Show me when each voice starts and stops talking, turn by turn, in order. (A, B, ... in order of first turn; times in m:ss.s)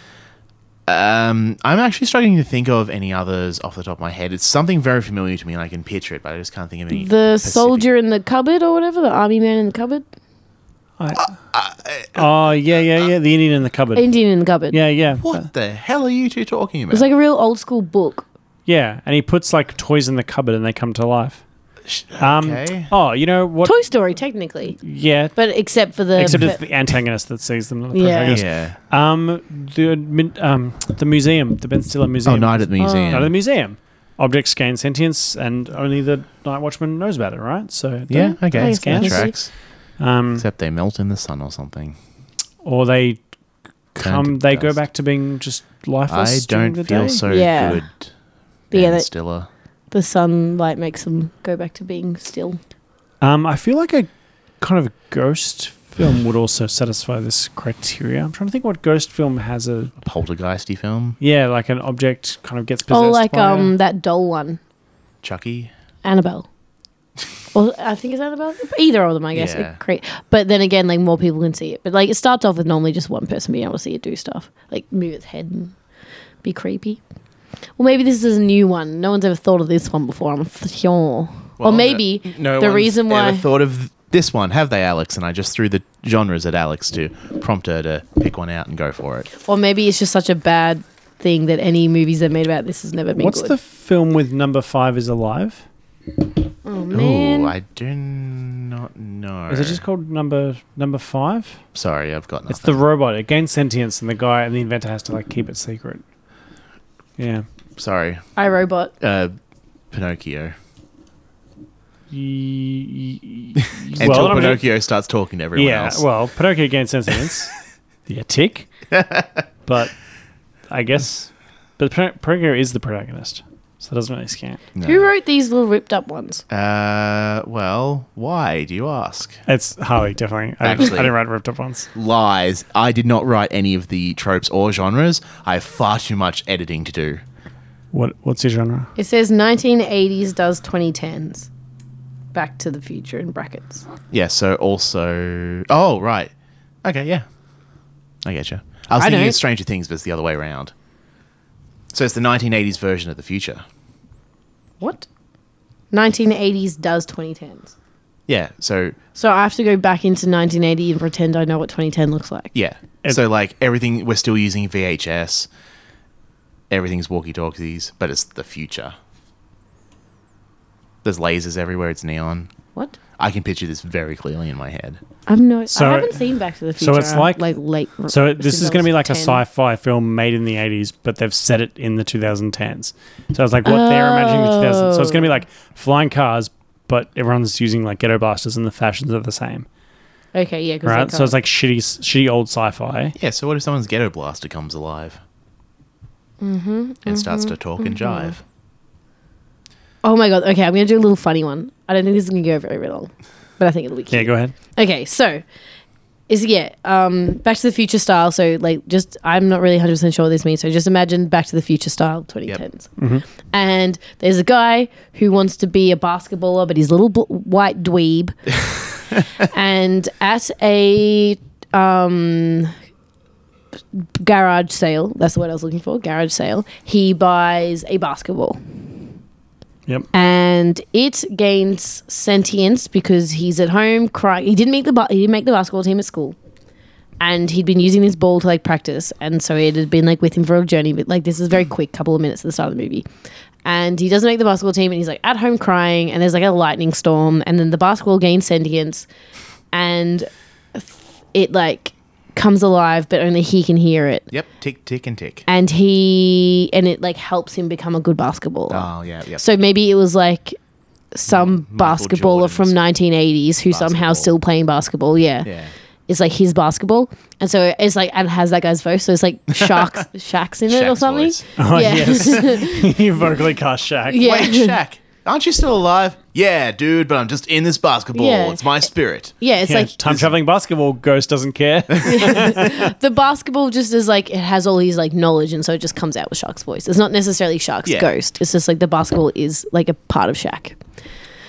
0:00.9-0:07.9 A
0:06.9-0:10.0 B
0:11.0-0:11.4 C
0:11.1-0:12.3 A
0:12.1-0:14.1 C
0:13.9-0:14.8 B
0:14.7-0:15.4 C
0:15.2-0:17.1 A
0:16.9-0:18.3 B
0:18.7-0:21.4 C
0:21.8-0:22.9 A
0:22.2-0:23.8 C
0:23.6-0:24.8 B
0:24.8-0:25.4 C
0:25.3-0:26.6 B
0:26.1-0:40.4 C
0:27.9-0:28.4 B
0:28.2-0:28.8 A
0:32.2-0:33.3 A
0:32.8-0:33.3 B
0:38.1-0:39.5 A
0:38.2-0:39.3 B
0:40.4-0:42.0 A
0:42.6-0:43.2 C
0:43.9-0:47.3 C
0:44.0-0:44.8 A
0:46.1-0:48.1 A
0:47.3-0:47.8 B
0:48.7-0:49.1 B
0:48.7-0:49.5 A
0:49.9-0:52.6 B
0:53.2-0:54.1 C
0:54.6-0:59.9 C
1:00.0-1:01.2 A
1:01.2-1:03.7 C
1:02.9-1:04.6 B
1:05.2-1:05.7 A
1:06.0-1:06.5 B
1:07.5-1:15.7 B
1:09.3-1:09.8 A
1:16.4-1:17.0 B
1:17.8-1:23.4 B
1:21.6-1:29.3 A
1:29.4-1:33.5 B
1:33.2-1:35.6 C
1:36.6-1:37.5 B
1:36.9-1:39.8 A
1:39.5-1:41.6 C
1:41.7-1:42.8 A
1:42.5-1:46.0 C
1:47.2-1:47.4 C
1:47.8-1:48.2 A
1:48.4-1:48.9 B
1:49.0-1:49.3 A
1:49.9-1:50.6 A
1:52.1-1:54.6 C
1:54.0-1:56.0 A
1:55.5-1:57.6 C
1:58.1-1:58.7 C
1:58.9-1:59.4 A
1:59.6-1:59.9 C
2:00.7-2:04.6 C
2:04.7-2:05.1 A
2:04.8-2:06.4 B
2:06.5-2:09.4 A
2:09.5-2:11.9 C
2:10.6-2:11.1 A
2:11.9-2:17.2 A
2:17.9-2:18.9 C
2:19.0-2:21.5 B
2:22.3-2:23.8 B
2:24.1-2:26.3 A
2:26.8-2:27.2 A
2:28.2-2:30.7 A
2:29.0-2:29.4 B
2:31.9-2:33.6 A
2:34.8-2:35.1 B
2:35.9-2:37.7 B
2:38.3-2:39.0 A
2:39.2-2:42.5 B
2:42.5-2:45.5 A
2:46.7-2:48.9 A
2:51.0-2:52.5 A
2:53.2-2:55.0 A
2:55.3-2:59.4 B
2:55.7-2:56.1 C
2:56.8-2:57.5 C
2:58.1-3:09.7 C
3:03.6-3:05.4 B
3:10.3-3:11.4 B
3:10.8-3:13.1 C
3:13.2-3:15.2 A
3:16.4-3:18.4 B
3:17.0-3:18.4 A
3:20.0-3:25.4 B
3:24.1-3:24.5 C
3:26.3-3:33.0 B
3:33.0-3:33.2 C
3:33.5-3:38.4 B
3:39.4-3:42.7 B
3:43.9-3:48.6 B
3:50.1-3:56.4 B
3:57.2-4:03.0 B
4:03.6-4:09.1 B
4:09.7-4:14.3 B
4:14.3-4:15.5 A
4:15.5-4:20.6 B
4:18.7-4:19.4 A
4:21.1-4:25.5 B
4:21.3-4:22.8 A
4:23.7-4:24.3 A
4:25.4-4:25.7 A
4:26.1-4:32.9 B
4:29.5-4:30.0 A
4:30.7-4:31.5 A
4:31.6-4:34.3 C
4:34.1-4:34.7 B
4:34.2-4:39.3 A
4:38.1-4:38.6 B
4:39.4-4:39.9 B
4:39.6-4:42.8 C
4:40.0-4:40.3 A
4:42.0-4:50.8 B